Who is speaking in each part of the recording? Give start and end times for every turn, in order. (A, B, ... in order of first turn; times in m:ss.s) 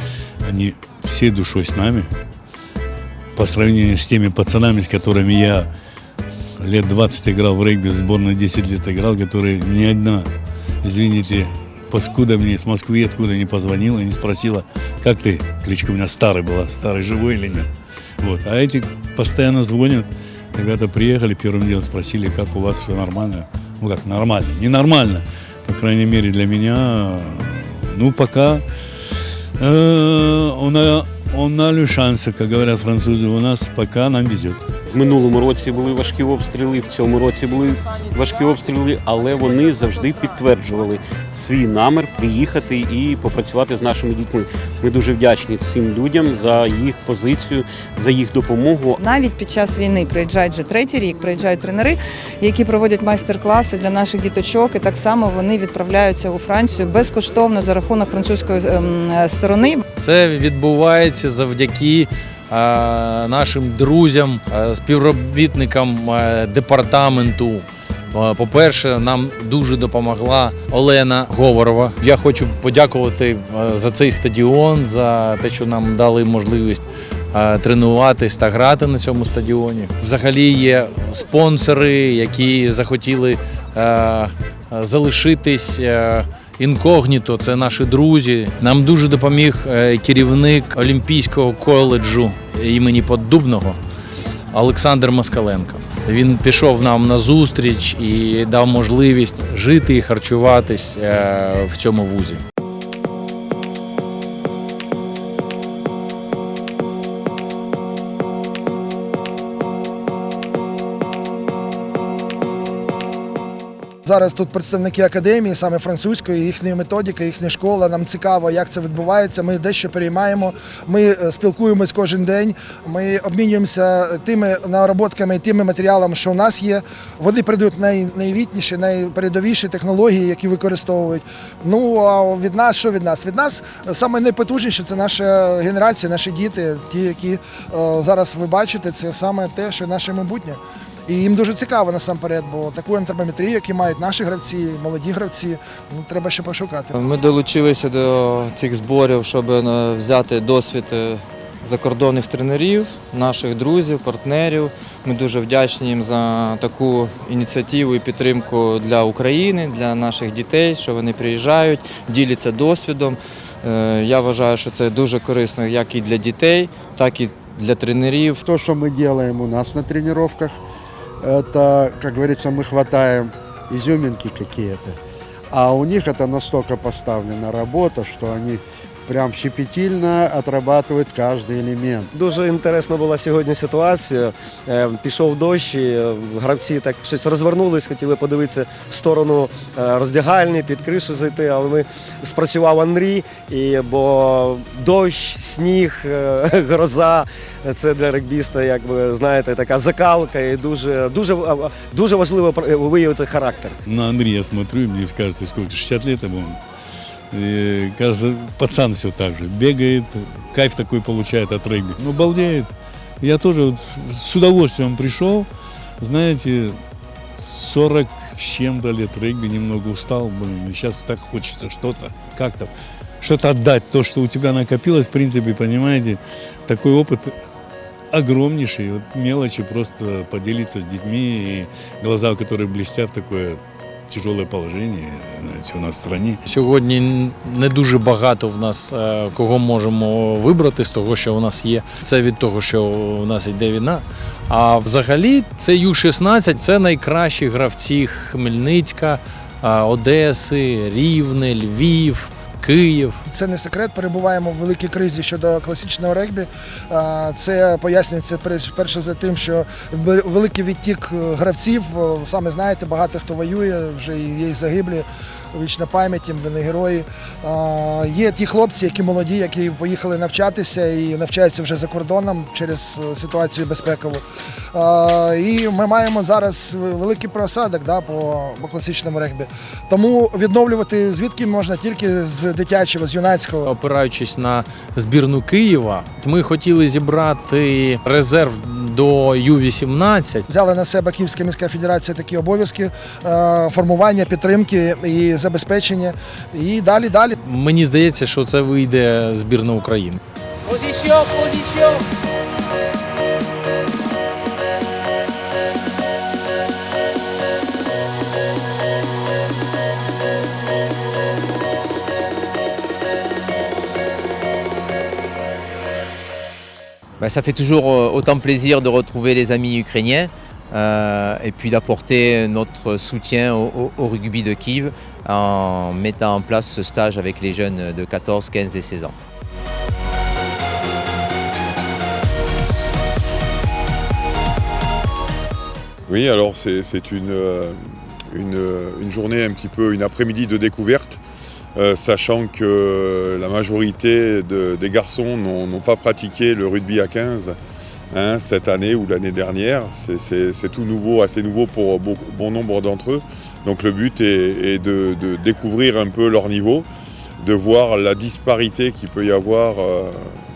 0:00.4-0:02.1 A
0:03.3-0:05.7 A
0:06.6-0:10.3 A
0:10.8-0:17.7 A
0:18.2-0:28.6 A
0:29.6-0:34.6 A
0:34.9-0:49.0 B
0:49.0-0:59.8 C
1:00.0-1:33.8 D
1:34.5-1:42.4 D
1:54.0-2:26.9 E
2:27.0-2:28.2 F
2:29.1-2:29.7 F
2:31.6-2:43.2 F
2:43.7-2:48.4 F
2:48.4-2:50.6 G
2:51.2-2:55.0 G
2:55.5-3:02.1 G
3:02.1-3:23.8 H
3:23.9-3:26.6 A
3:27.3-3:35.5 A
3:36.0-3:36.8 A
3:37.4-3:47.3 A
3:48.1-3:56.4 A
3:56.4-4:13.2 D
4:13.3-4:43.7 E
4:43.6-4:50.4 D
4:50.5-4:57.3 E
4:57.4-5:00.2 D
5:17.2-5:29.1 I
5:36.1-5:37.8 J
5:38.3-5:41.2 J
5:41.7-5:47.5 J
5:48.1-5:56.9 J
5:57.4-6:00.4 J